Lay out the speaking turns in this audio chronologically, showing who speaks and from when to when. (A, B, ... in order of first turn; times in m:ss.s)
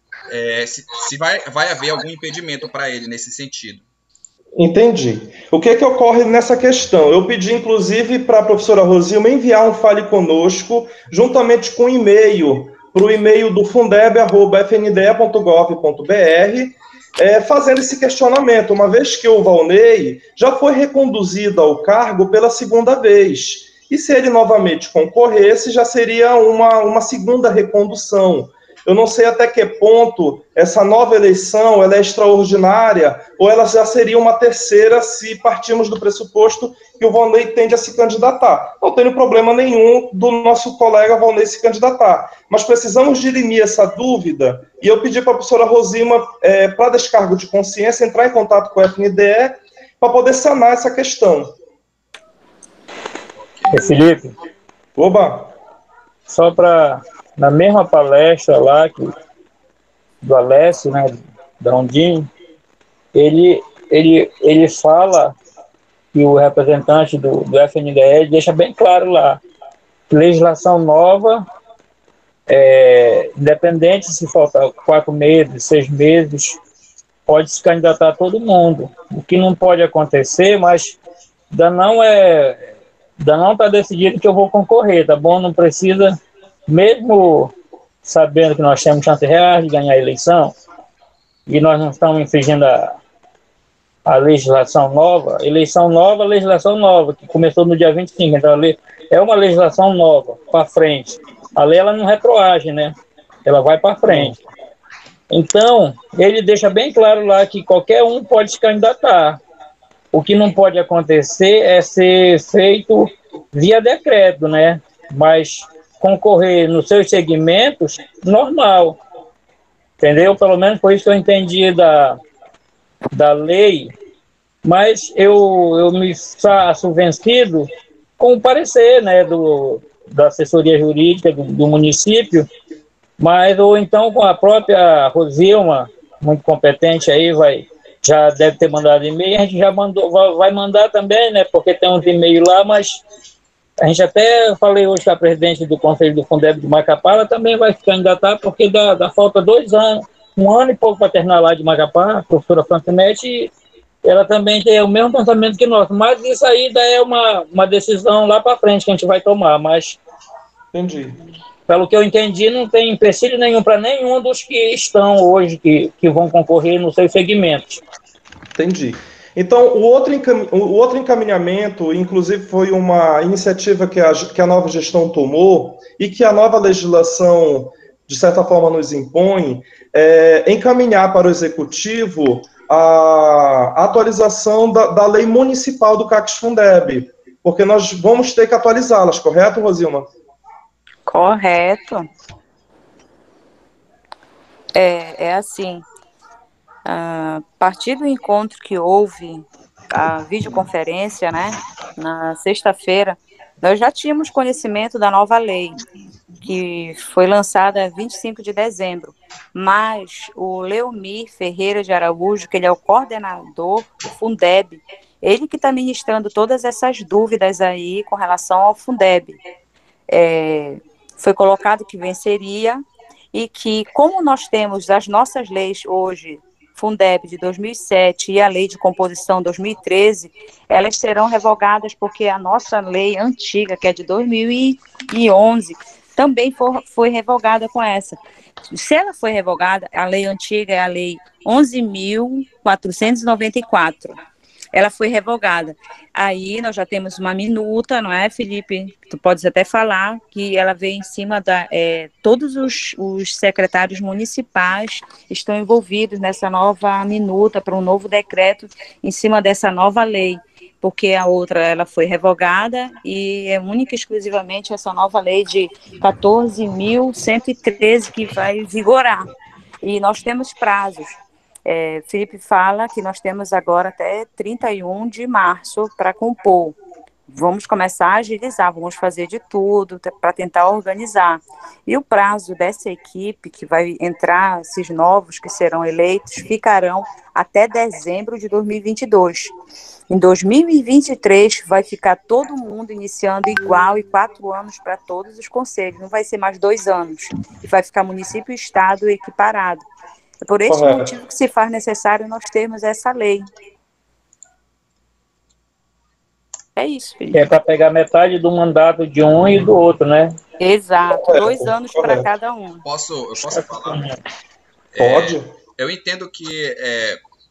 0:00.3-0:03.8 A
0:04.6-0:51.5 B
0:53.4-0:53.8 A
0:53.7-0:54.3 C
0:55.0-0:55.5 B
0:56.3-0:59.1 C
1:00.2-1:02.3 C
1:03.1-1:05.4 C
1:06.1-1:09.4 C
1:10.1-1:11.4 C
1:12.5-1:16.6 C
1:17.3-1:21.0 C
1:21.5-1:22.6 C
1:23.2-1:30.5 C
1:31.5-1:33.0 C
1:34.0-1:44.4 C
1:44.0-1:44.4 B
1:45.3-1:49.4 C
1:50.1-1:59.0 C
2:00.0-2:02.2 C
2:03.1-2:03.9 C
2:04.6-2:07.7 C
2:08.2-2:12.5 C
2:13.2-2:23.0 C
2:23.8-2:33.5 C
2:34.0-2:40.0 C
2:40.7-2:41.2 B
2:41.7-2:47.8 C
2:48.6-3:10.1 B
3:11.1-3:12.1 D
3:14.7-3:15.8 D
3:16.8-3:25.8 D
3:26.4-3:39.4 D
3:40.1-3:58.2 D
3:58.7-4:04.2 D
4:04.7-4:29.3 D
4:29.8-4:36.8 D
4:37.3-4:49.5 D
4:50.1-4:59.8 D
5:00.4-5:03.5 D
5:00.7-5:01.1 B
5:06.8-5:07.5 D
5:07.3-5:10.4 C
5:10.6-5:12.8 D
5:11.2-5:12.3 B
5:12.8-5:14.0 A
5:13.5-5:14.2 C
5:14.9-5:17.2 A
5:15.0-5:15.5 B